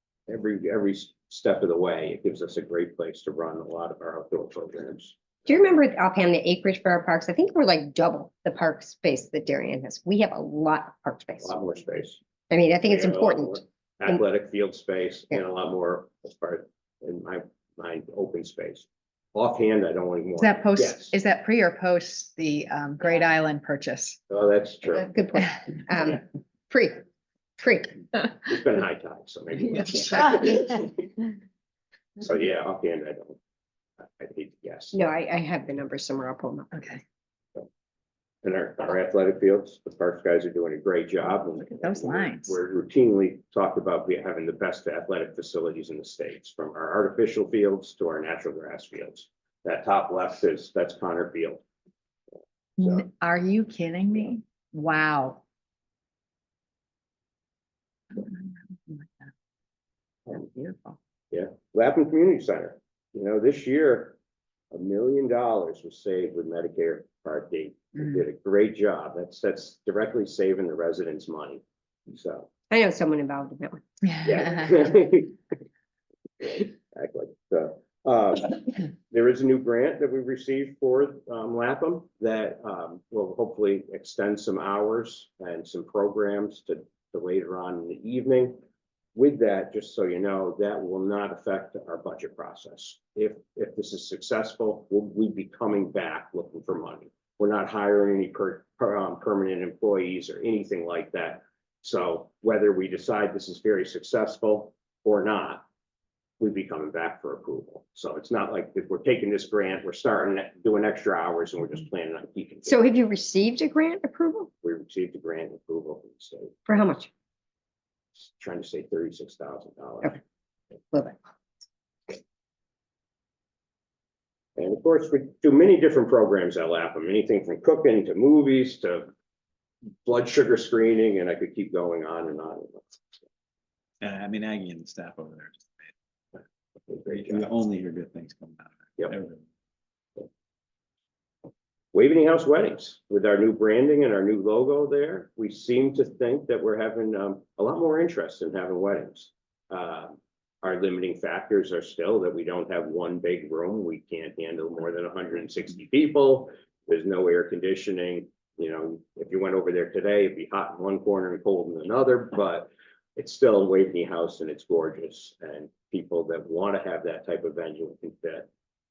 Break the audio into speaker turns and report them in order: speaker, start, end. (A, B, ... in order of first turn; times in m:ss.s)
0:00.3-0:05.2 A
0:05.5-0:11.5 B
0:11.4-0:12.2 A
0:12.5-0:14.2 B
0:12.8-0:21.1 A
0:20.4-0:24.2 C
0:24.3-0:25.1 A
0:24.9-0:27.0 B
0:27.6-0:28.4 B
0:28.4-0:31.1 A
0:30.2-0:30.5 C
0:32.2-0:33.4 A
0:34.2-0:35.1 A
0:34.9-0:36.9 B
0:36.7-0:37.0 C
0:38.4-0:51.6 A
0:41.6-0:42.6 C
0:52.8-0:55.4 C
0:58.1-0:59.3 C
1:00.3-1:01.0 C
1:01.3-1:04.2 A
1:04.7-1:12.5 A
1:12.7-1:13.8 B
1:14.1-1:14.6 C
1:14.2-1:15.4 A
1:16.4-1:28.6 A
1:29.1-1:45.6 A
1:46.4-1:52.8 A
1:52.6-1:54.5 B
1:54.6-1:56.6 A
1:56.7-1:57.1 B
1:58.2-2:00.2 A
2:00.9-2:01.2 B
2:04.6-2:09.1 A
2:10.0-2:13.2 A
2:14.0-2:15.9 D
2:16.9-2:17.4 A
2:17.0-2:19.4 D
2:21.9-2:48.5 A